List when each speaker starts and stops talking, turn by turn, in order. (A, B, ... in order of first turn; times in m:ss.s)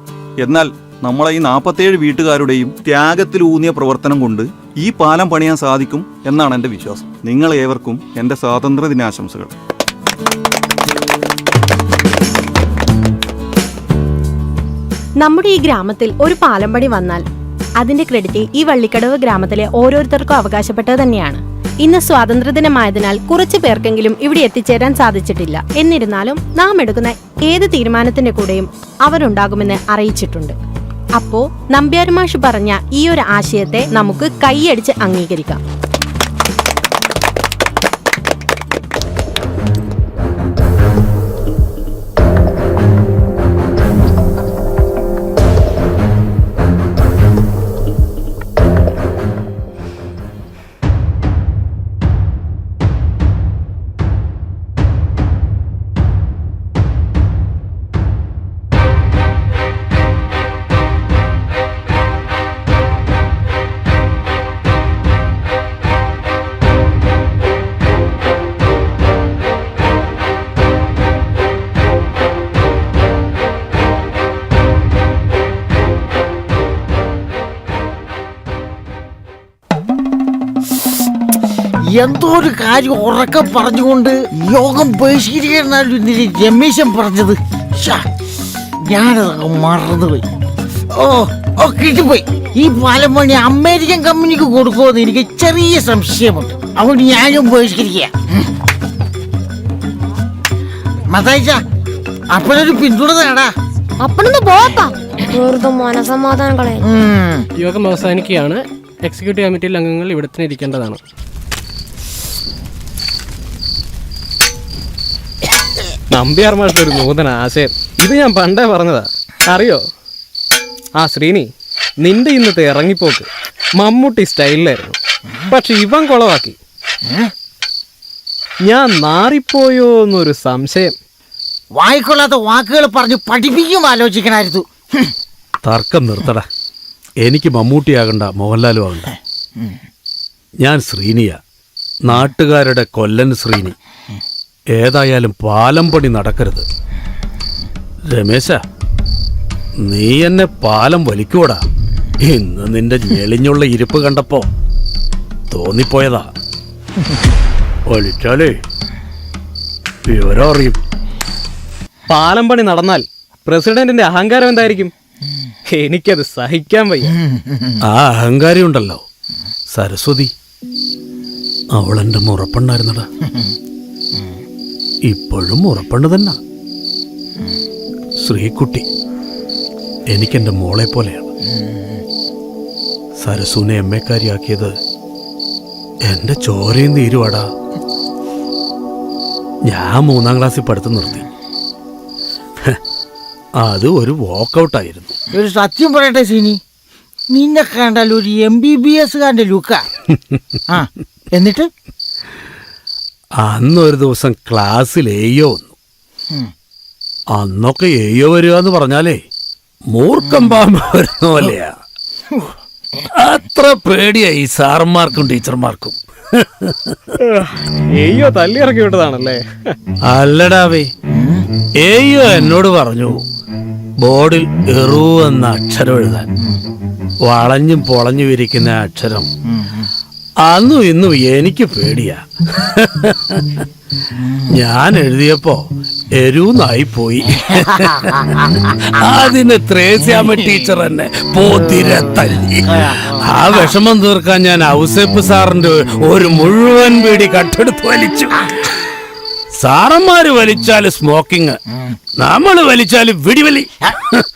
0:00.4-0:09.5 A
0:15.2-0:17.2 B
0:17.8-0:30.6 B
0:31.2-0:35.6 B
1:21.9-1:28.1 C
1:28.8-1:30.2 C
1:30.9-1:38.5 C
1:41.1-1:41.6 C
1:42.3-1:43.5 C
1:44.0-1:46.9 D
1:46.8-1:47.5 C
1:47.6-1:51.0 E
1:56.1-1:59.8 E
2:01.0-2:01.5 E
2:02.0-2:03.3 E
2:03.8-2:05.0 E
2:05.5-2:06.6 E
2:08.7-2:10.9 E
2:11.7-2:15.1 C
2:15.6-2:16.5 F
2:17.2-2:19.1 F
2:20.6-2:21.4 F
2:22.0-2:23.8 F
2:24.7-2:26.6 F
2:28.1-2:28.6 F
2:29.8-2:31.6 F
2:32.2-2:34.5 F
2:35.5-2:36.3 F
2:37.9-2:38.6 F
2:40.0-2:40.8 F
2:42.1-2:44.9 E
2:45.7-2:47.1 E
2:47.8-2:49.0 F
2:49.7-2:50.3 F
2:51.8-2:53.1 F
2:55.1-2:56.4 F
2:58.2-2:58.9 F
3:00.1-3:01.3 F
3:03.2-3:04.7 F
3:06.1-3:07.5 F
3:09.7-3:11.3 F
3:13.6-3:15.2 F
3:15.3-3:16.6 C
3:17.3-3:19.8 C
3:20.7-3:21.7 C
3:23.4-3:25.8 F
3:27.4-3:29.2 F
3:29.9-3:31.7 F
3:33.1-3:37.1 F
3:37.3-3:39.4 E
3:40.1-3:40.9 F
3:41.8-3:43.2 F
3:44.0-3:46.3 F
3:47.2-3:49.3 F
3:50.4-3:53.7 F
3:54.5-4:08.4 F
4:02.8-4:03.2 C
4:09.6-4:11.6 F
4:12.2-4:14.1 F